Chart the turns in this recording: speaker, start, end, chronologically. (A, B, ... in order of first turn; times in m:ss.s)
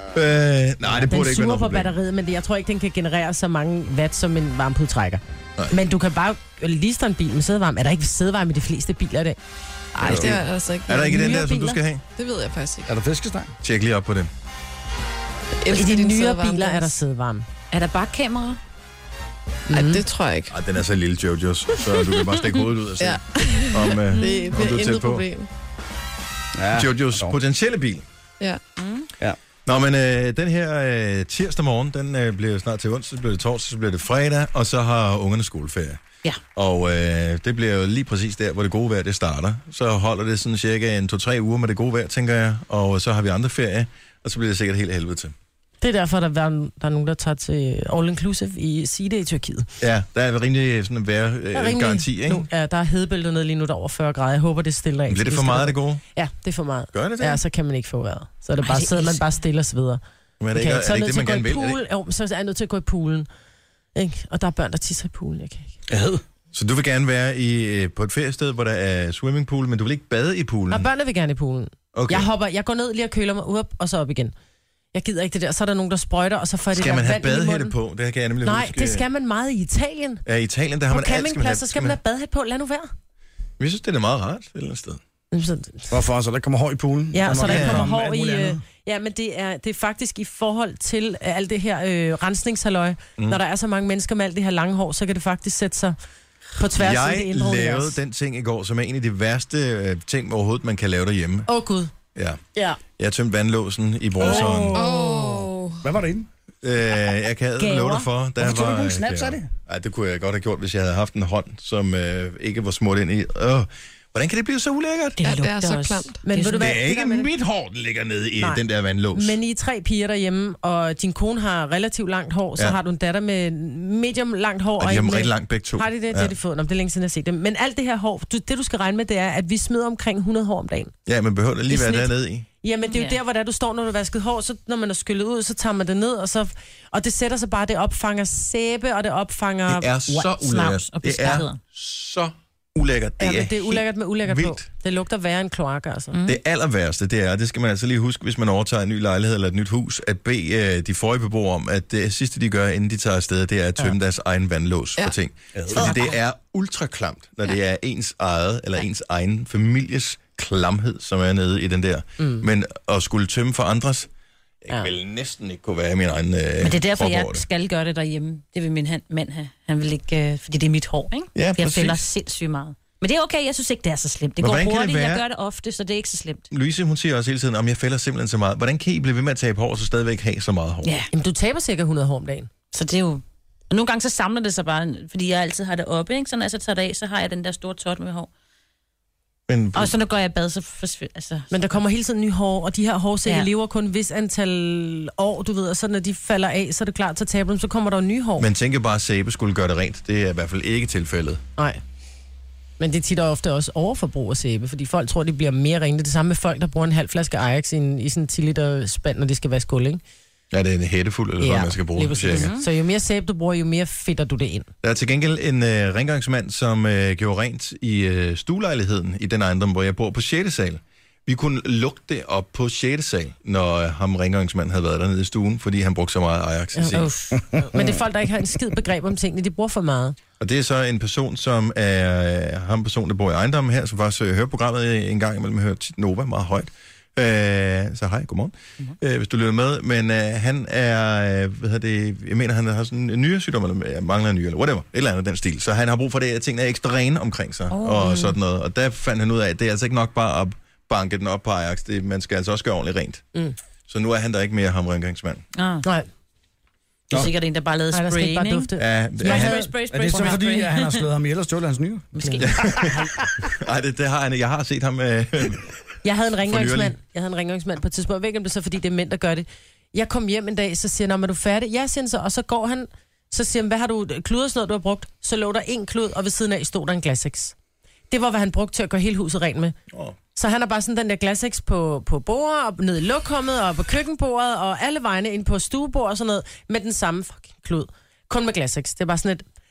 0:00.1-0:02.0 A
0:00.9-0:09.4 B
0:10.0-0:11.4 C
0:10.0-0:12.0 A
0:11.0-0:11.8 B
0:12.2-0:12.9 C
0:12.9-0:13.6 D
0:13.6-0:14.3 A
0:15.6-0:16.9 C
0:15.7-0:17.5 B
0:17.7-0:18.6 E
0:19.7-0:20.0 B
0:19.7-0:20.6 C
0:20.5-0:25.2 A
0:23.0-0:25.5 C
0:24.1-0:24.5 E
0:26.6-0:27.4 D
0:26.7-0:28.0 A
0:28.8-0:29.1 E
0:29.7-0:36.0 A
0:36.6-0:45.3 A
0:45.8-0:49.7 B
0:49.8-0:52.5 A
0:51.5-1:00.0 B
0:55.1-0:56.0 A
0:56.9-0:57.4 A
0:58.6-0:59.2 E
1:00.4-1:01.8 A
1:00.5-1:03.3 B
1:04.0-1:05.7 B
1:05.9-1:06.2 D
1:06.5-1:10.9 A
1:10.7-1:14.3 B
1:11.9-1:12.3 A
1:14.9-1:17.8 B
1:16.7-1:19.1 A
1:18.4-1:20.2 B
1:20.3-1:22.0 A
1:20.9-1:22.9 B
1:23.6-1:25.0 A
1:25.3-1:25.9 B
1:25.9-1:28.6 D
1:27.1-1:36.0 B
1:27.3-1:27.9 A
1:36.6-1:38.0 B
1:36.8-1:41.5 A
1:41.5-1:41.9 B
1:42.2-1:42.4 A
1:42.6-1:42.8 B
1:43.0-1:44.9 A
1:44.2-1:46.3 D
1:44.7-1:45.9 C
1:46.6-1:55.2 A
1:47.6-1:48.1 E
1:48.4-1:49.5 D
1:55.2-1:56.8 E
1:55.2-1:56.1 C
1:56.2-1:57.3 B
1:56.6-1:59.4 A
1:59.1-2:10.9 B
2:04.8-2:06.3 A
2:11.1-2:12.5 A
2:11.7-2:12.1 B
2:12.6-2:19.9 B
2:12.9-2:13.2 E
2:19.7-2:24.7 A
2:20.1-2:21.6 E
2:23.2-2:26.2 B
2:26.1-2:26.4 E
2:26.2-2:44.1 A
2:35.5-2:35.9 D
2:42.2-2:42.5 B
2:44.6-2:47.4 A
2:46.6-2:56.5 E
2:51.4-2:52.0 A
2:54.4-2:55.2 A
2:56.5-3:00.9 A
3:00.8-3:01.1 E
3:01.1-3:02.5 B
3:02.7-3:08.3 E
3:09.5-3:10.0 A
3:09.8-3:11.5 E
3:11.5-3:18.5 B
3:18.4-3:21.4 A
3:22.8-3:30.0 B
3:30.5-3:32.6 A
3:31.4-3:34.7 B
3:32.3-3:32.6 E
3:34.8-3:47.1 A
3:46.8-3:50.2 B
3:46.9-3:47.4 E
3:47.7-3:48.0 D
3:50.4-4:13.2 A
4:07.7-4:08.3 B
4:13.9-4:15.4 A
4:15.6-4:15.9 E
4:17.1-4:18.7 E
4:17.9-4:20.3 B
4:18.8-4:19.5 A
4:19.2-4:21.0 E
4:19.9-4:23.3 D
4:22.2-4:22.8 E
4:22.4-4:25.7 A
4:26.0-4:37.5 B
4:26.4-4:27.0 A
4:38.1-4:39.8 B
4:40.4-4:49.4 B